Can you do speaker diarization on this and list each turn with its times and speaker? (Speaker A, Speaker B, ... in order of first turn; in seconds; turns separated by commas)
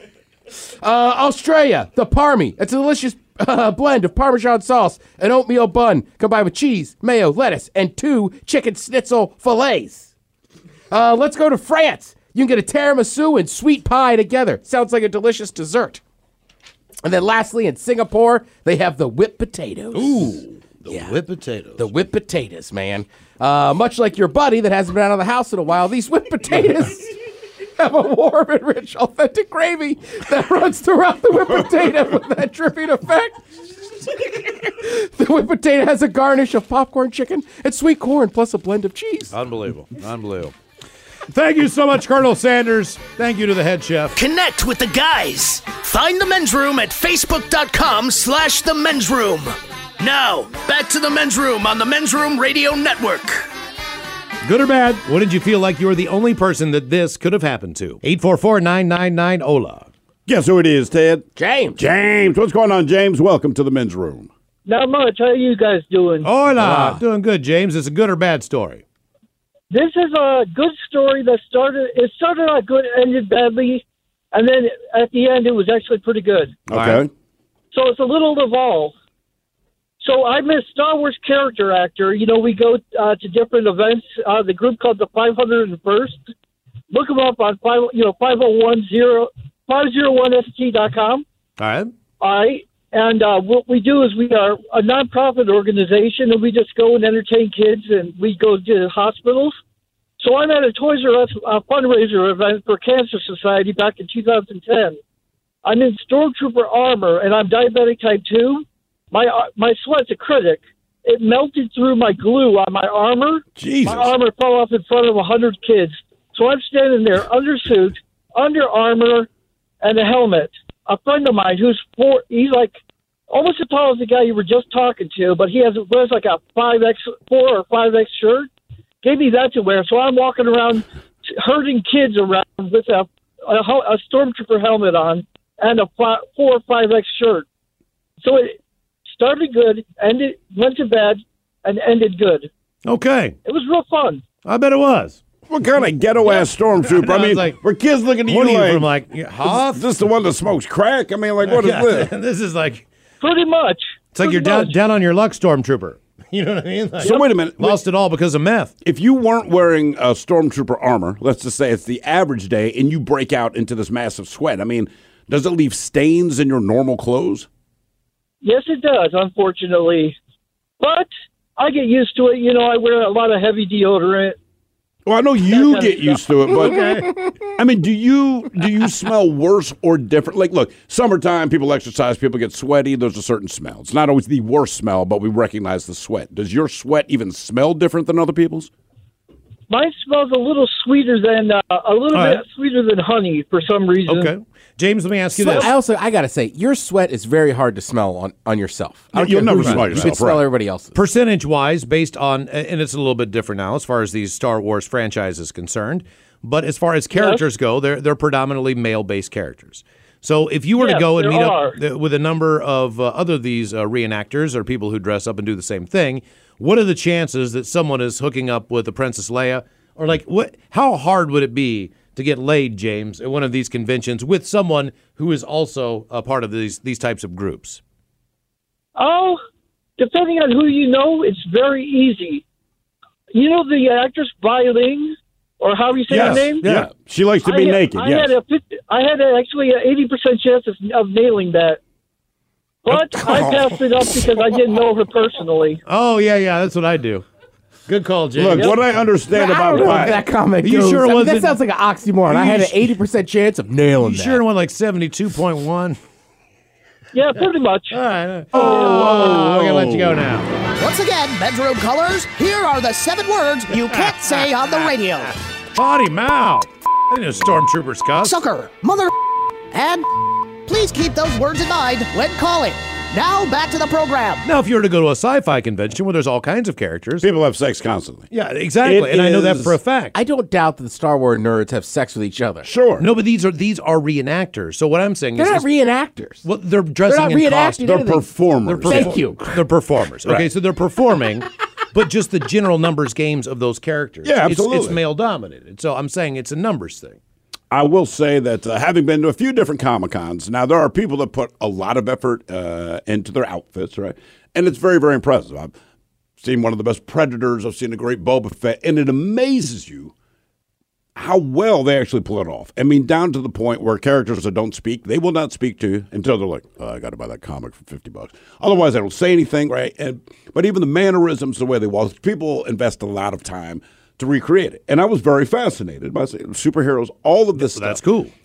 Speaker A: 0.6-10.1, Speaker A: 10.9-16.0, Speaker A: 17.0-21.1, Speaker B: 19.9-21.9, Speaker A: 21.8-27.1, Speaker A: 27.8-33.4, Speaker A: 34.1-39.3, Speaker B: 39.3-40.5, Speaker B: 41.3-44.2, Speaker C: 44.1-53.5, Speaker B: 54.4-59.9, Speaker D: 60.3-61.2, Speaker A: 61.4-61.8, Speaker D: 61.8-64.3, Speaker E: 64.7-66.3, Speaker B: 66.2-68.8, Speaker A: 66.6-67.0, Speaker E: 69.7-76.5, Speaker D: 76.7-77.1, Speaker B: 76.7-77.0, Speaker E: 77.7-78.9, Speaker E: 80.0-86.2, Speaker E: 86.9-91.2, Speaker B: 91.6-91.9, Speaker E: 92.2-99.5, Speaker E: 100.2-105.0, Speaker E: 105.6-119.3, Speaker D: 113.5-114.1, Speaker E: 119.8-122.8, Speaker E: 123.3-128.5, Speaker E: 129.0-137.4, Speaker E: 138.2-138.6, Speaker E: 139.1-142.5, Speaker B: 142.8-143.3, Speaker E: 143.4-144.2, Speaker B: 144.4-145.2, Speaker D: 145.5-148.9, Speaker B: 146.2-147.6, Speaker B: 148.2-149.8, Speaker D: 149.4-152.1, Speaker B: 151.4-152.8, Speaker E: 153.2-154.7, Speaker B: 154.1-158.7, Speaker E: 157.0-157.3, Speaker D: 157.0-157.8, Speaker D: 158.8-167.5, Speaker E: 168.4-170.2, Speaker E: 170.8-174.4, Speaker D: 175.1-188.7, Speaker E: 175.4-176.5, Speaker B: 176.6-177.1, Speaker A: 176.8-177.3, Speaker E: 189.7-194.3, Speaker B: 192.1-192.4, Speaker B: 194.1-195.7, Speaker A: 195.3-201.0, Speaker D: 199.1-200.5, Speaker B: 199.4-200.1, Speaker B: 200.9-227.8, Speaker E: 207.1-207.4, Speaker E: 210.8-211.8, Speaker E: 228.9-229.4, Speaker E: 230.0-232.4, Speaker E: 233.3-236.7, Speaker B: 236.1-236.9, Speaker D: 236.1-238.3, Speaker E: 237.4-241.8, Speaker E: 242.8-245.8, Speaker D: 242.9-244.3, Speaker B: 245.9-247.2, Speaker B: 247.9-248.8, Speaker D: 248.3-250.2, Speaker A: 249.3-254.4, Speaker B: 249.7-251.6, Speaker B: 252.3-252.9, Speaker B: 254.0-256.0, Speaker E: 257.1-258.0, Speaker B: 257.9-260.5, Speaker D: 258.5-260.2, Speaker E: 258.5-259.1, Speaker F: 260.8-265.3, Speaker B: 263.8-264.9, Speaker B: 265.7-268.4, Speaker F: 268.2-269.1, Speaker F: 269.7-270.1, Speaker F: 270.6-274.4, Speaker B: 274.4-277.3, Speaker D: 277.2-278.3, Speaker B: 278.3-280.1, Speaker D: 278.8-279.8, Speaker A: 280.1-282.7, Speaker D: 282.6-283.1, Speaker B: 283.0-285.7, Speaker A: 285.4-286.4, Speaker B: 286.4-287.9, Speaker A: 287.0-288.2, Speaker D: 287.8-289.2, Speaker B: 288.6-297.2, Speaker A: 288.8-289.4, Speaker D: 294.2-295.0, Speaker D: 297.7-305.7, Speaker D: 306.4-310.1, Speaker D: 311.1-328.0, Speaker B: 327.5-328.3